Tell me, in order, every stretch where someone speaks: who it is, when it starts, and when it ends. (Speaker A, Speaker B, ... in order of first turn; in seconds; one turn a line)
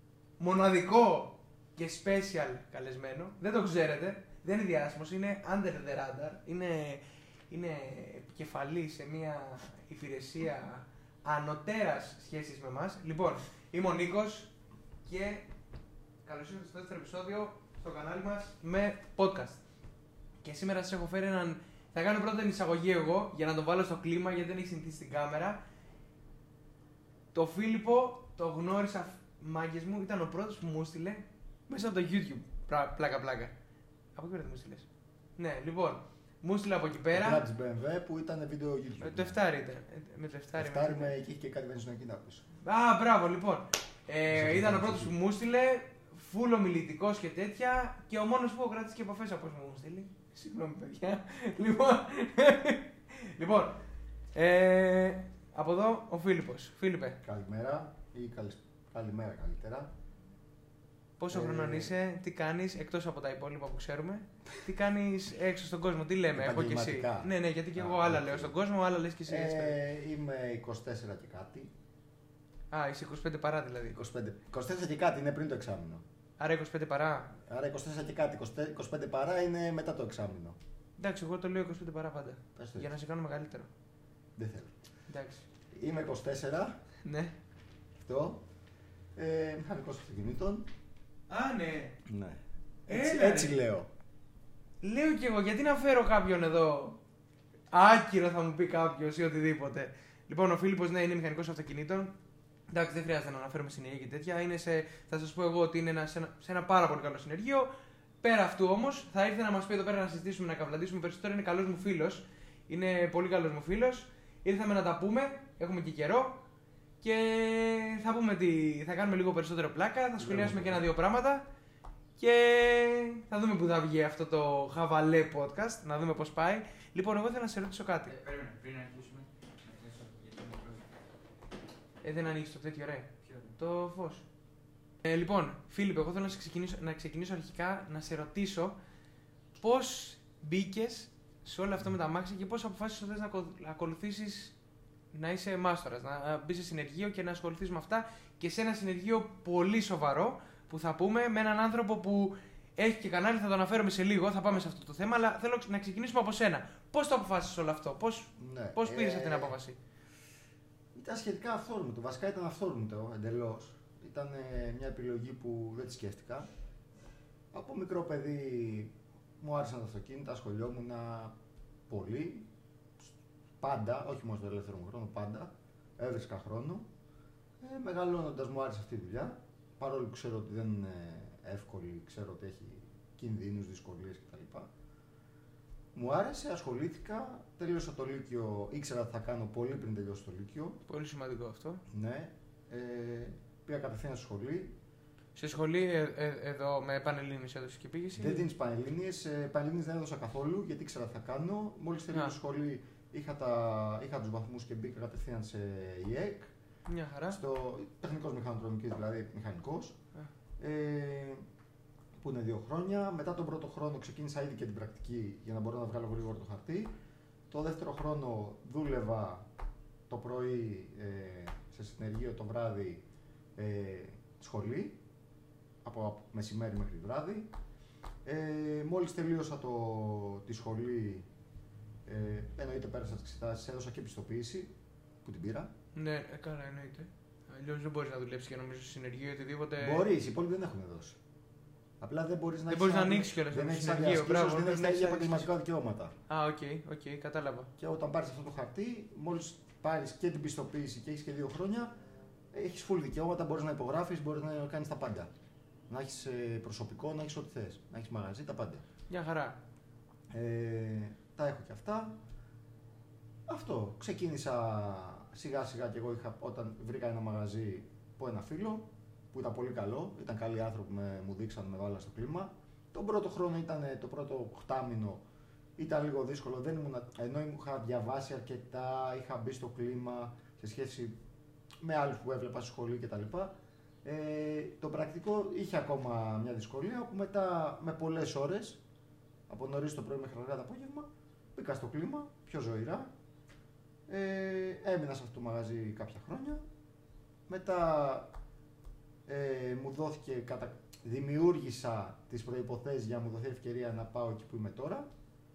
Speaker A: 0.4-14.5
Speaker A: 15.0-15.5
Speaker A: 16.2-19.6
Speaker A: 20.4-25.6
Speaker A: 27.3-33.5
Speaker A: 34.1-34.9
Speaker A: 35.4-37.4
Speaker B: 37.1-39.4
Speaker A: 39.0-41.1
Speaker B: 40.6-42.5
Speaker A: 42.6-53.8
Speaker B: 44.3-45.1
Speaker A: 54.3-57.2
Speaker B: 57.2-59.9
Speaker A: 61.2-69.8
Speaker B: 61.3-62.0
Speaker B: 66.3-68.5
Speaker B: 69.3-71.7
Speaker A: 72.7-74.0
Speaker B: 73.9-76.0
Speaker A: 76.4-77.3
Speaker B: 77.5-80.6
Speaker A: 81.0-83.7
Speaker B: 82.5-82.9
Speaker B: 84.3-84.7
Speaker A: 85.1-85.5
Speaker B: 85.7-86.8
Speaker A: 87.0-87.3
Speaker B: 88.0-88.4
Speaker B: 89.2-90.7
Speaker A: 91.3-92.0
Speaker B: 92.0-93.9
Speaker A: 92.9-93.6
Speaker A: 94.8-97.0
Speaker A: 97.7-102.1
Speaker A: 102.7-107.7
Speaker A: 108.2-116.4
Speaker A: 117.0-121.5
Speaker B: 120.2-120.9
Speaker A: 122.2-128.1
Speaker C: 128.1-130.8
Speaker A: 132.0-134.2
Speaker C: 133.2-133.5
Speaker A: 135.0-138.8
Speaker A: 139.6-144.5
Speaker A: 145.1-159.8
Speaker B: 158.4-159.6
Speaker B: 160.9-166.5
Speaker B: 167.5-171.3
Speaker B: 171.9-172.5
Speaker B: 173.0-176.8
Speaker B: 177.6-184.7
Speaker B: 185.9-190.8
Speaker A: 190.9-191.8
Speaker B: 191.9-194.7
Speaker A: 195.3-198.5
Speaker B: 198.2-206.5
Speaker A: 206.9-207.4
Speaker B: 207.3-210.0
Speaker B: 210.6-211.4
Speaker B: 212.2-216.9
Speaker B: 217.5-219.5
Speaker B: 220.1-223.0
Speaker B: 223.6-225.0
Speaker B: 225.8-227.5
Speaker B: 228.2-231.2
Speaker B: 232.1-234.7
Speaker B: 235.2-235.7
Speaker A: 235.9-240.0
Speaker B: 239.8-241.2
Speaker B: 242.0-246.2
Speaker A: 242.7-245.5
Speaker A: 246.3-247.7
Speaker B: 247.8-251.9
Speaker B: 252.5-255.3
Speaker B: 255.9-258.8
Speaker A: 259.1-259.6
Speaker B: 260.3-262.2
Speaker B: 263.5-275.2
Speaker B: 275.8-281.1
Speaker B: 281.8-288.8
Speaker B: 289.5-293.1
Speaker B: 294.1-296.6
Speaker B: 297.5-298.3
Speaker B: 299.2-305.1